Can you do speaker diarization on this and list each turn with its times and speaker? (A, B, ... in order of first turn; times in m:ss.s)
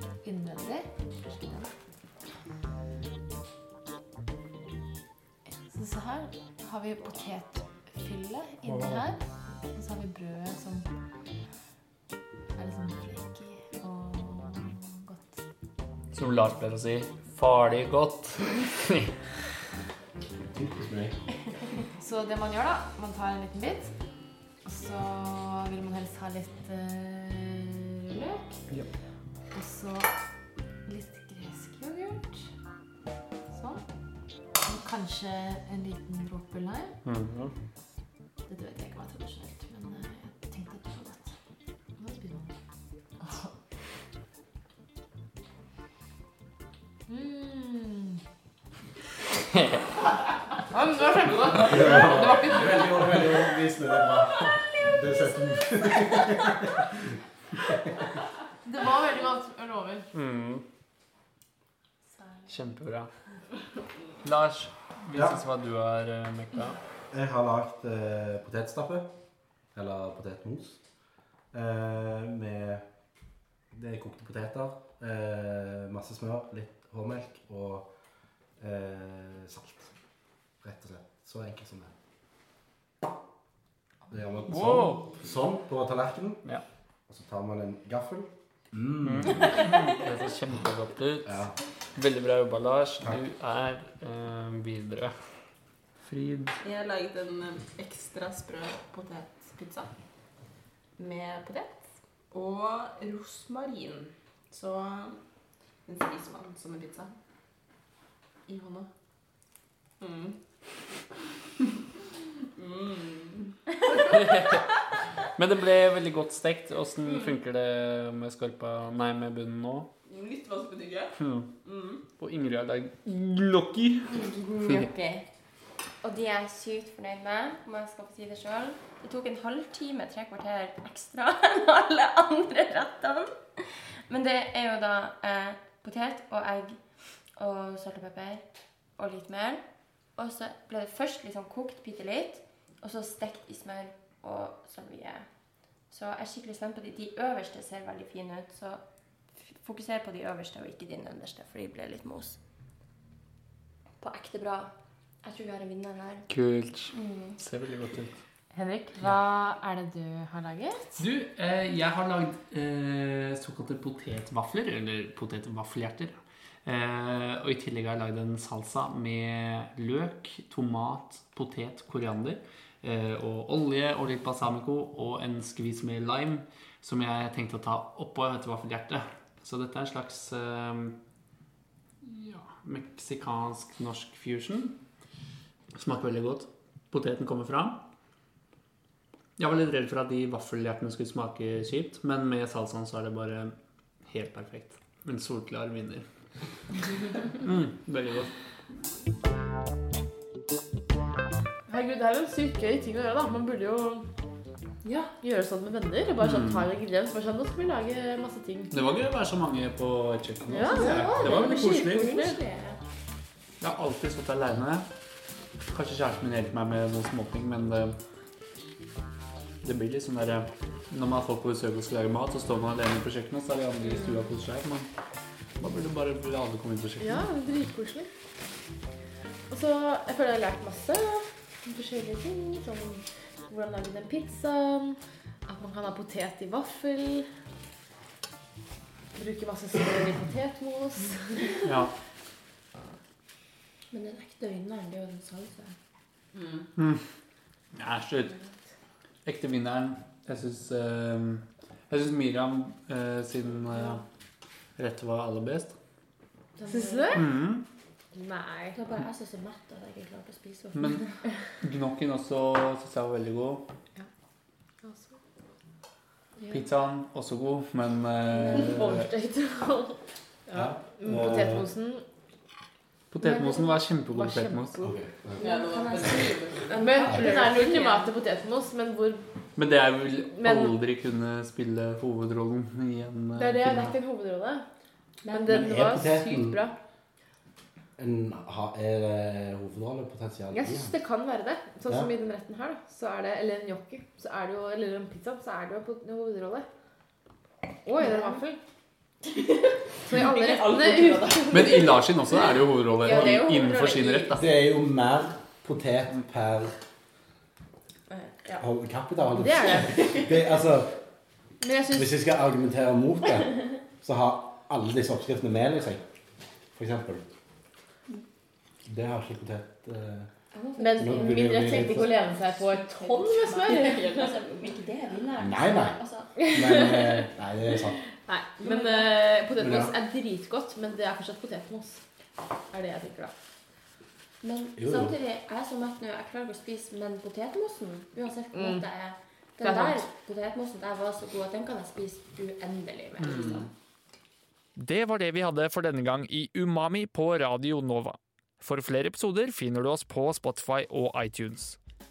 0:00.2-0:01.7 A
0:05.6-0:09.2 A
0:08.6-0:09.1 B
0:09.7-0:10.9 A
0:12.5-0:15.4 A
0:16.1-0:19.2 B
0:20.5-0:21.2 C
0:22.0-0:24.0 A
0:24.6-0:28.6 A
0:29.5-0:30.1 A
0:30.9-0:32.4 A
0:33.5-0:33.8 A
0:34.6-0:37.0 A
0:37.0-0:37.5 B
0:38.5-0:41.3 A
0:42.0-0:42.5 A
0:43.2-0:43.5 A
0:47.1-0:48.2 A
0:50.7-0:53.4 A
0:51.6-0:56.9 C
0:52.3-0:52.6 B
0:58.6-1:00.1 A
1:00.1-1:00.6 B
1:02.5-1:03.1 B
1:04.2-1:06.8 B
1:05.1-1:05.4 C
1:07.1-1:09.1 C
1:09.7-1:10.9 C
1:11.5-1:12.8 C
1:13.7-1:19.9 C
1:20.6-1:21.9 C
1:24.1-1:26.5 C
1:24.5-1:25.2 B
1:27.1-1:29.6 C
1:29.0-1:35.4 B
1:31.2-1:31.6 C
1:36.0-1:36.6 B
1:36.6-1:40.0 D
1:41.0-1:45.2 D
1:45.9-1:47.1 D
1:48.4-1:48.9 D
1:50.0-1:50.4 D
1:52.6-1:54.5 D
1:54.0-1:54.7 B
1:55.4-1:59.9 B
2:00.0-2:02.0 D
2:01.2-2:01.5 B
2:02.1-2:04.9 B
2:04.1-2:05.3 E
2:06.0-2:32.4 E
2:34.0-2:36.3 E
2:36.3-2:38.2 B
2:36.9-2:37.4 E
2:38.5-2:41.0 A
2:41.0-3:01.0 B
3:02.0-3:04.8 B
3:05.7-3:07.9 B
3:09.4-3:16.1 B
3:17.4-3:18.3 B
3:21.7-3:24.1 A
3:24.8-3:25.1 E
3:25.2-3:28.7 A
3:26.2-3:26.7 B
3:28.7-3:32.3 B
3:30.5-3:32.4 A
3:30.7-3:32.8 E
3:33.6-3:34.9 B
3:35.7-3:38.0 B
3:39.6-3:44.9 B
3:45.6-3:47.2 B
3:47.0-3:48.1 A
3:49.5-3:57.3 A
3:59.1-4:01.5 A
4:01.6-4:01.9 B
4:03.9-4:05.8 E
4:06.8-4:07.0 B
4:07.7-4:08.4 B
4:09.2-4:14.0 B
4:14.8-4:15.8 B
4:16.6-4:17.1 E
4:16.6-4:17.4 A
4:17.1-4:17.6 B
4:18.1-4:18.8 A
4:18.7-4:21.2 E
4:20.7-4:23.7 B
4:24.8-4:25.2 A
4:26.5-4:29.1 B
4:28.3-4:32.0 A
4:30.5-4:31.7 C
4:33.1-4:34.8 B
4:33.2-4:39.3 A
4:34.8-4:35.4 C
4:35.4-4:38.0 D
4:36.7-4:38.1 E
4:39.6-4:44.0 B
4:40.4-4:40.7 A
4:43.3-4:44.6 A
4:45.2-4:45.5 E
4:45.3-4:46.8 A
4:45.5-4:46.6 C
4:48.0-4:51.0 C
4:50.5-4:56.7 A
4:51.9-4:52.1 C
4:57.8-4:58.6 A
4:58.0-4:58.4 E
5:00.1-5:01.8 A
5:00.1-5:04.2 D
5:01.5-5:04.5 B
5:03.0-5:04.2 E
5:04.4-5:06.7 C
5:08.1-5:08.6 E
5:08.6-5:11.0 C
5:09.3-5:10.1 A
5:11.6-5:12.1 A
5:11.9-5:16.0 C
5:16.7-5:17.2 C
5:18.8-5:20.3 C
5:20.5-5:26.3 E
5:20.8-5:24.3 A
5:21.0-5:22.2 C
5:25.4-5:28.0 C
5:26.4-5:27.2 A
5:28.1-5:32.0 A
5:28.6-5:29.0 E
5:29.6-5:29.9 C
5:32.7-5:33.4 A
5:34.4-5:43.7 E
5:34.8-5:35.1 C
5:38.5-5:38.8 A
5:39.6-5:40.1 A
5:43.2-5:43.7 B
5:43.3-5:43.6 D
5:44.8-5:51.8 B